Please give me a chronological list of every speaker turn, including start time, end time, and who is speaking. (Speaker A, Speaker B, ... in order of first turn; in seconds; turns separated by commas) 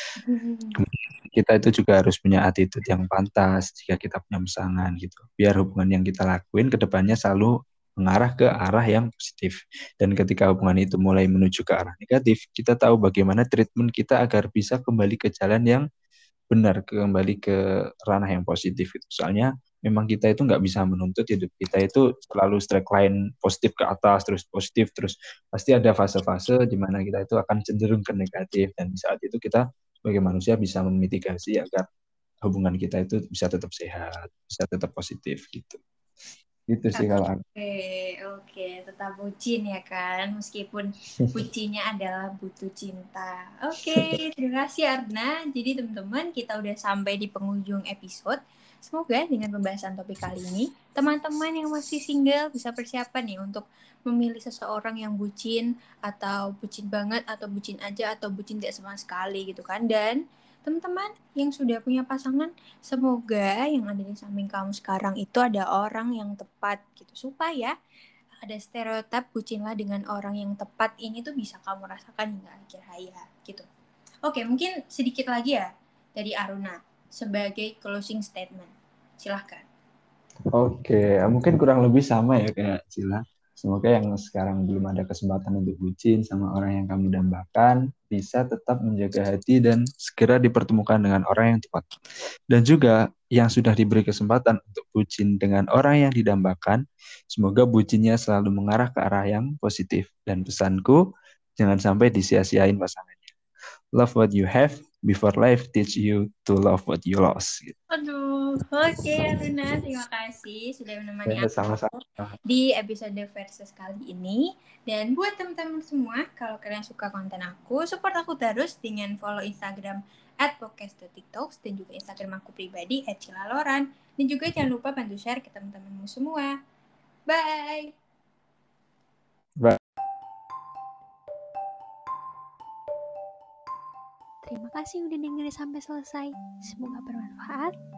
Speaker A: 0.2-0.8, Speaker B: 0.8-15.8, Speaker B: 16.5-31.9, Speaker B: 32.4-35.8, Speaker B: 36.7-37.4, Speaker A: 37.0-67.7, Speaker A: 68.5-73.6, Speaker A: 74.2-79.6, Speaker B: 80.5-91.9, Speaker B: 92.5-101.0, Speaker B: 101.6-103.3, Speaker B: 103.9-107.8, Speaker A: 107.9-111.5, Speaker B: 111.3-112.3, Speaker A: 112.5-126.5, Speaker A: 127.3-127.9, Speaker C: 134.4-137.7